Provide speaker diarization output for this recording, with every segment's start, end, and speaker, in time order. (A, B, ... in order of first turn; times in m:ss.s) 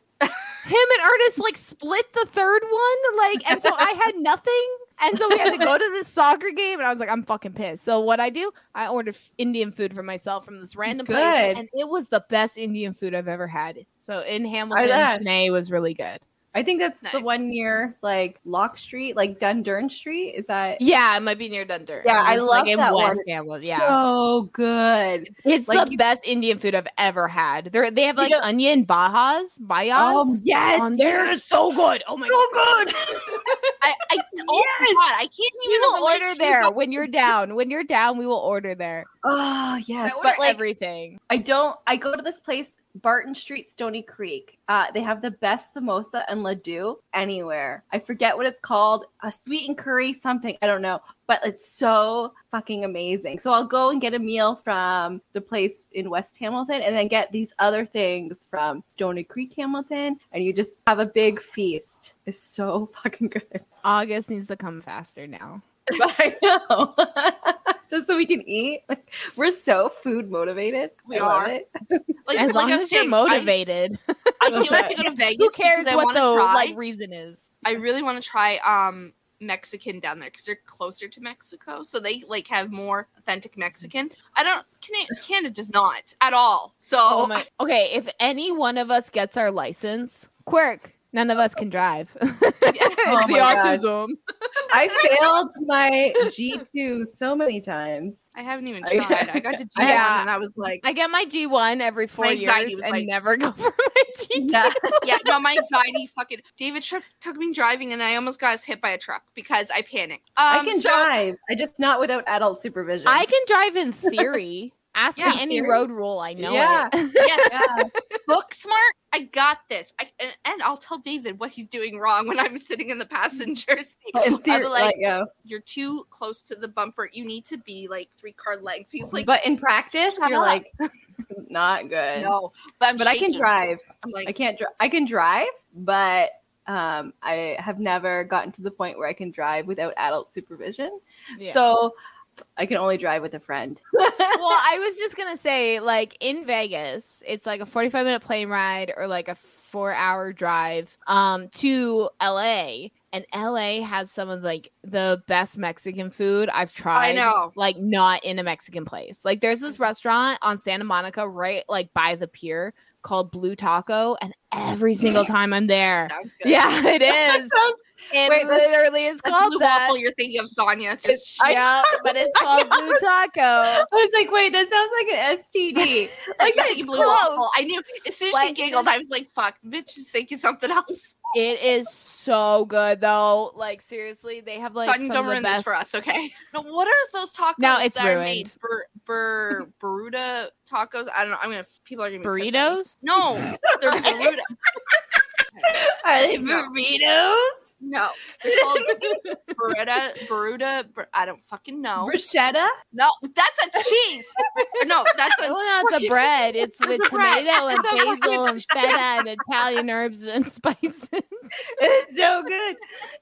0:00.6-0:16.2 A
0:10.9-0:11.6 B
0:14.7-0:15.2 B
0:16.5-0:20.8 B
0:17.0-0:17.3 C
0:20.8-0:24.0 A
0:22.0-0:26.0 B
0:25.4-0:32.6 A
0:28.2-0:28.5 B
0:29.9-0:31.6 B
0:32.2-0:33.6 B
0:33.8-0:36.7 C
0:34.4-0:35.0 B
0:35.6-0:39.1 A
0:39.2-0:40.6 B
0:40.0-0:41.2 A
0:41.3-1:03.6 B
1:03.8-1:05.6 A
1:06.0-1:12.0 B
1:11.1-1:11.5 C
1:12.2-1:13.5 C
1:12.3-1:17.4 A
1:14.4-1:16.8 C
1:14.5-1:15.0 B
1:17.6-1:27.4 C
1:27.1-1:34.2 A
1:32.7-1:33.4 C
1:33.0-1:33.8 B
1:34.7-1:38.2 B
1:38.3-1:40.8 C
1:38.8-1:40.2 B
1:39.8-1:40.3 A
1:40.8-1:45.0 A
1:42.2-1:43.1 C
1:44.4-1:45.0 B
1:45.0-1:51.1 C
1:50.5-1:53.3 B
1:53.0-1:58.2 A
1:55.3-1:55.8 B
1:56.4-1:56.9 B
1:57.2-1:57.6 C
1:57.5-1:57.9 B
1:58.3-2:09.3 C
2:04.1-2:05.3 B
2:09.1-2:10.7 B
2:10.1-2:10.7 C
2:11.3-2:12.3 B
2:12.1-2:14.3 C
2:13.0-2:21.9 B
2:22.6-2:24.6 B
2:24.3-2:47.5 A
2:36.9-2:37.5 C
2:46.1-2:46.7 C
2:47.1-2:48.8 B
2:48.1-2:50.0 A
2:49.2-2:51.7 C
2:51.0-2:53.0 B
2:51.4-2:53.9 A
2:53.8-2:57.2 B
2:56.3-2:57.4 A
2:56.4-3:01.2 C
2:58.3-2:58.9 A
3:01.3-3:05.7 A
3:04.8-3:14.5 C
3:07.6-3:08.5 A
3:12.2-3:12.9 A
3:13.4-3:14.3 B
3:15.7-3:17.6 B
3:16.4-3:16.7 C
3:17.8-3:22.2 C
3:18.4-3:19.3 B
3:22.0-3:22.7 B
3:22.9-3:29.0 C
3:25.4-3:31.5 A
3:31.8-3:32.8 B